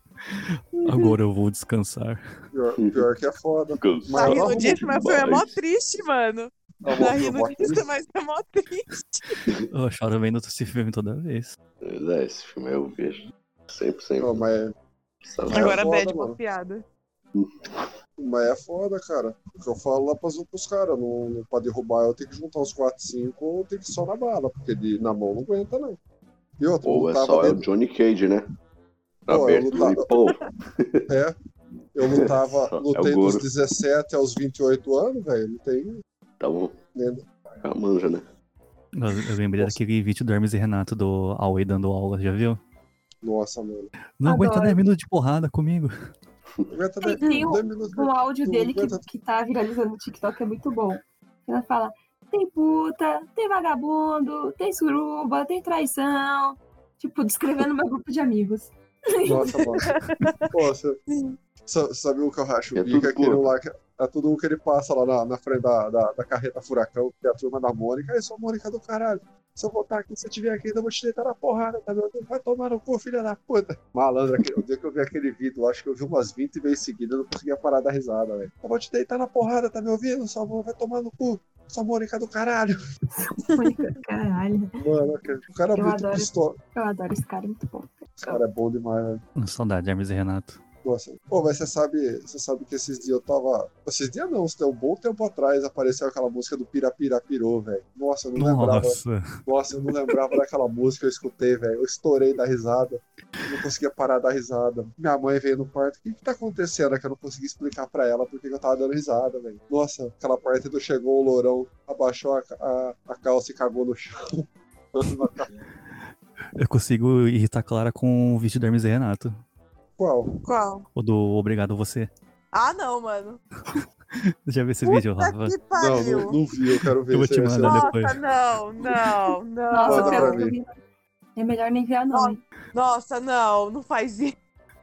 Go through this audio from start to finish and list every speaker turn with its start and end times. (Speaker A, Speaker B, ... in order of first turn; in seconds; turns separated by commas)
Speaker A: 0.3-2.2, Speaker B: 0.8-1.1, Speaker C: 2.5-4.9, Speaker D: 3.8-5.6, Speaker B: 4.1-8.9, Speaker C: 6.8-7.9, Speaker A: 9.7-11.5, Speaker D: 11.8-14.4, Speaker C: 14.2-14.7, Speaker D: 15.2-15.9, Speaker C: 15.5-16.4, Speaker B: 15.5-16.8, Speaker D: 17.3-17.9, Speaker C: 18.2-26.0, Speaker C: 26.6-27.6, Speaker D: 26.8-28.5, Speaker D: 29.3-31.1, Speaker C: 29.3-30.1, Speaker C: 31.1-31.3, Speaker C: 31.9-36.0, Speaker D: 32.0-33.5, Speaker D: 36.4-36.8, Speaker C: 36.9-37.2, Speaker D: 37.6-38.2, Speaker A: 38.9-42.6, Speaker C: 43.2-43.9, Speaker A: 44.2-45.9, Speaker E: 44.2-44.8, Speaker C: 46.7-49.0, Speaker E: 47.0-59.9, Speaker C: 59.2-60.0, Speaker B: 60.0-60.4, Speaker C: 60.5-61.0, Speaker B: 61.1-61.4, Speaker C: 61.6-82.8, Speaker D: 62.8-63.5, Speaker E: 83.2-84.8, Speaker C: 84.8-86.6, Speaker E: 85.7-88.4, Speaker C: 88.2-89.2, Speaker A: 89.3-90.6, Speaker C: 90.8-115.5, Speaker A: 98.3-99.2, Speaker A: 116.5-119.4, Speaker C: 120.0-120.3, Speaker B: 120.4-120.8, Speaker A: 120.9-122.1, Speaker B: 122.5-123.4, Speaker A: 123.7-125.6, Speaker B: 124.8-126.4, Speaker C: 125.7-127.9, Speaker A: 127.1-128.2, Speaker B: 127.6-130.4, Speaker E: 129.7-130.7, Speaker C: 129.8-130.6, Speaker E: 131.3-132.4, Speaker B: 132.1-134.3